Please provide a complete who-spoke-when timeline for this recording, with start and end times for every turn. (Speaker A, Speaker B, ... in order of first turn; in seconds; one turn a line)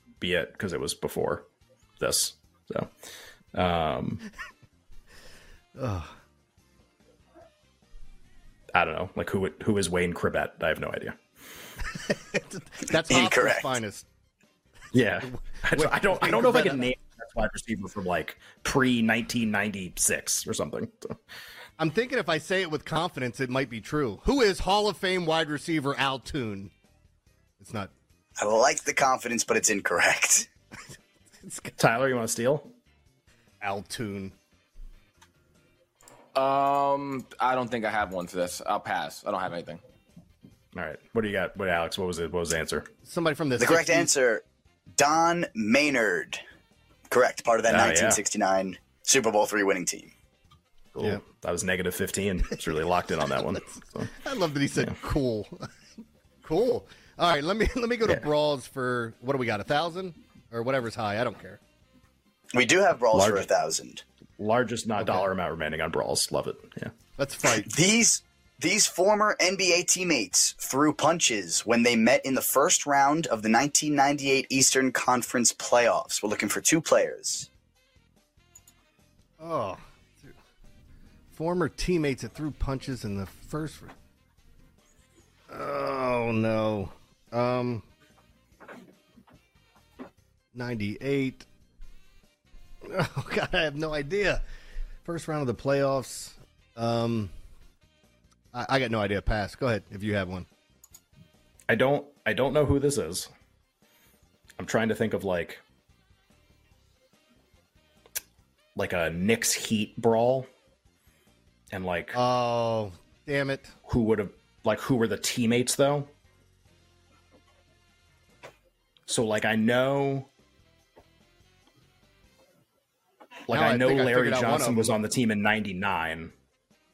Speaker A: 0.2-1.4
Speaker A: 2.0-2.9
Speaker A: 3.5-4.2
Speaker B: 5.8-6.1
Speaker A: 8.7-11.2
Speaker B: 12.0-14.1
Speaker C: 13.1-13.8
Speaker A: 14.9-21.1
Speaker B: 15.7-16.9
Speaker B: 21.8-26.7
Speaker B: 27.6-27.9
Speaker C: 28.4-30.5
Speaker B: 31.4-31.7
Speaker A: 31.8-32.7
Speaker B: 33.6-34.3
Speaker D: 36.3-39.8
Speaker A: 40.7-42.9
Speaker B: 43.0-44.1
Speaker C: 43.6-44.4
Speaker C: 45.0-46.4
Speaker C: 47.1-50.1
Speaker A: 47.7-48.2
Speaker A: 50.9-54.1
Speaker B: 54.0-55.7
Speaker B: 56.4-61.6
Speaker C: 62.5-64.0
Speaker A: 63.1-63.5
Speaker A: 64.4-66.9
Speaker B: 65.0-65.3
Speaker B: 67.2-67.7
Speaker C: 67.6-77.5
Speaker B: 79.4-80.3
Speaker B: 81.3-83.9
Speaker B: 85.5-87.8
Speaker B: 90.5-91.5
Speaker B: 92.8-94.4
Speaker B: 95.0-97.3
Speaker B: 98.5-100.5
Speaker A: 101.7-103.3
Speaker A: 104.6-105.6
Speaker A: 108.8-110.5
Speaker A: 111.7-112.2
Speaker B: 112.1-113.7
Speaker A: 113.9-116.1
Speaker A: 119.1-120.3
Speaker A: 123.5-126.3
Speaker B: 123.5-125.0